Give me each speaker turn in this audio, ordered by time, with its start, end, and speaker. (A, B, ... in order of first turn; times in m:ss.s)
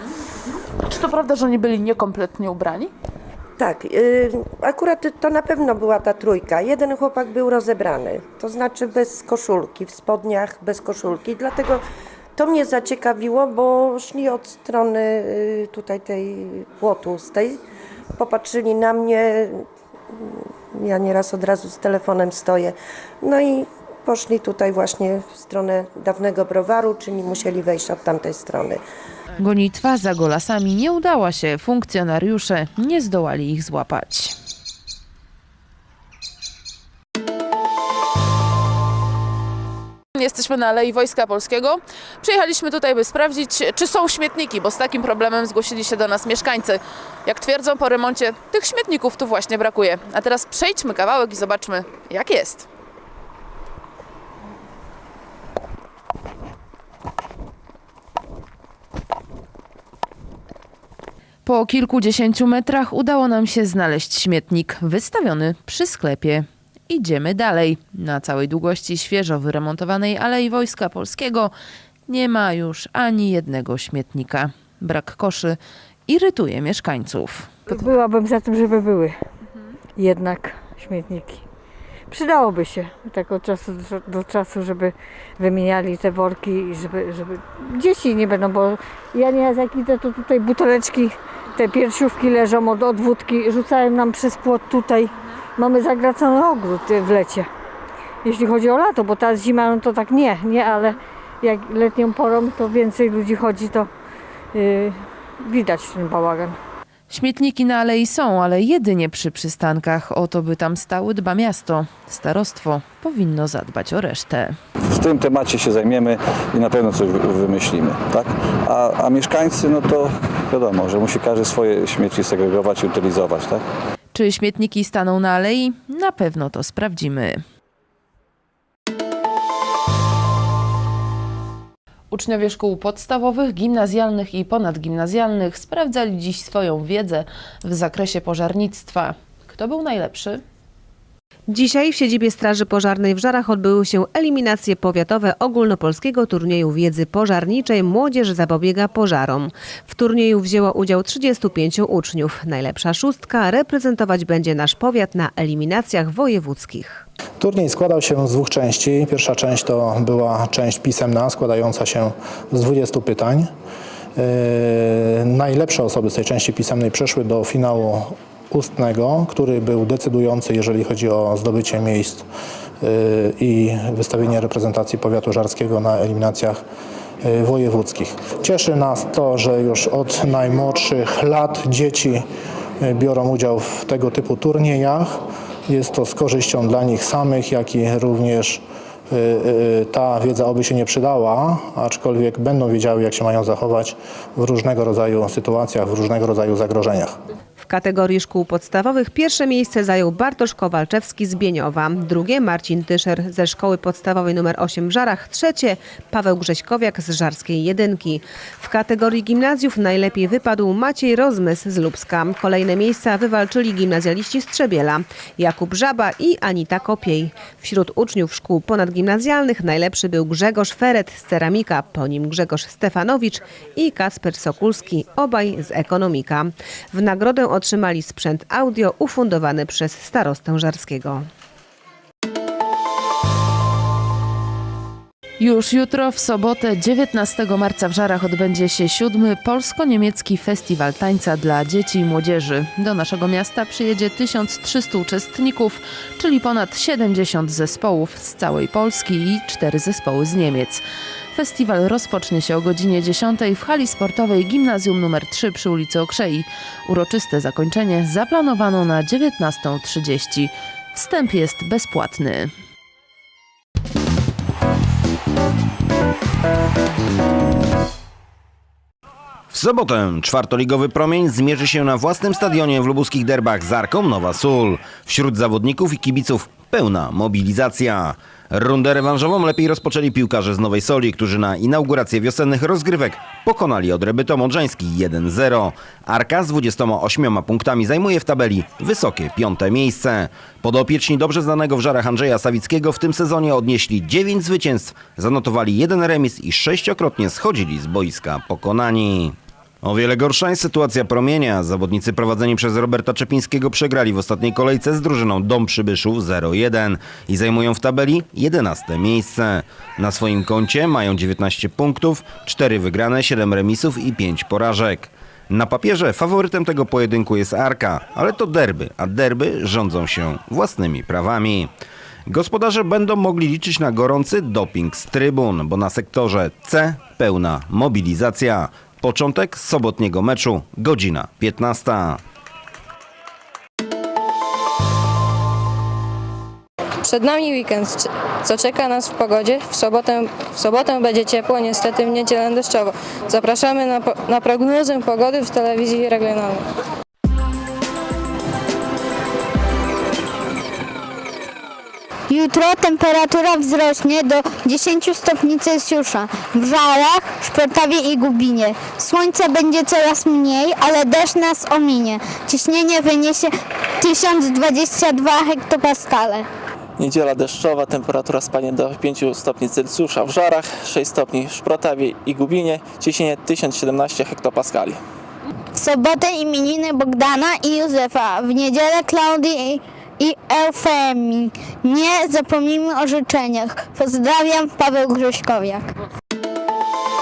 0:00.8-0:02.9 A
0:03.6-0:11.8 B
0:12.4-0:17.6 B
0:18.2-0:19.6 B
0:20.2-0:28.8 B
0:29.4-0:34.3 A
0:40.1-0:52.7 A
1:01.4-1:11.5 A
1:12.1-1:17.8 A
1:17.7-1:19.1 C
1:20.0-1:21.4 C
1:22.1-1:35.0 C
1:35.6-1:37.4 C
1:38.2-1:43.9 C
1:44.5-1:44.9 C
1:45.4-1:46.6 C
1:47.1-1:54.5 A
1:54.9-2:03.6 D
2:04.1-2:07.4 A
2:12.1-2:20.4 A
2:21.5-2:37.0 E
2:37.4-2:43.5 F
2:44.2-2:52.3 F
2:52.8-2:56.6 F
2:57.2-3:02.2 F
3:02.8-3:05.1 F
3:05.7-3:17.1 F
3:17.6-3:51.2 E
3:55.4-4:10.8 A
4:11.3-4:22.5 A
4:29.5-5:21.7 G
5:22.3-5:32.2 G
5:37.0-5:46.6 H
5:52.3-6:06.4 I
6:07.0-6:15.0 J
6:15.8-6:25.9 I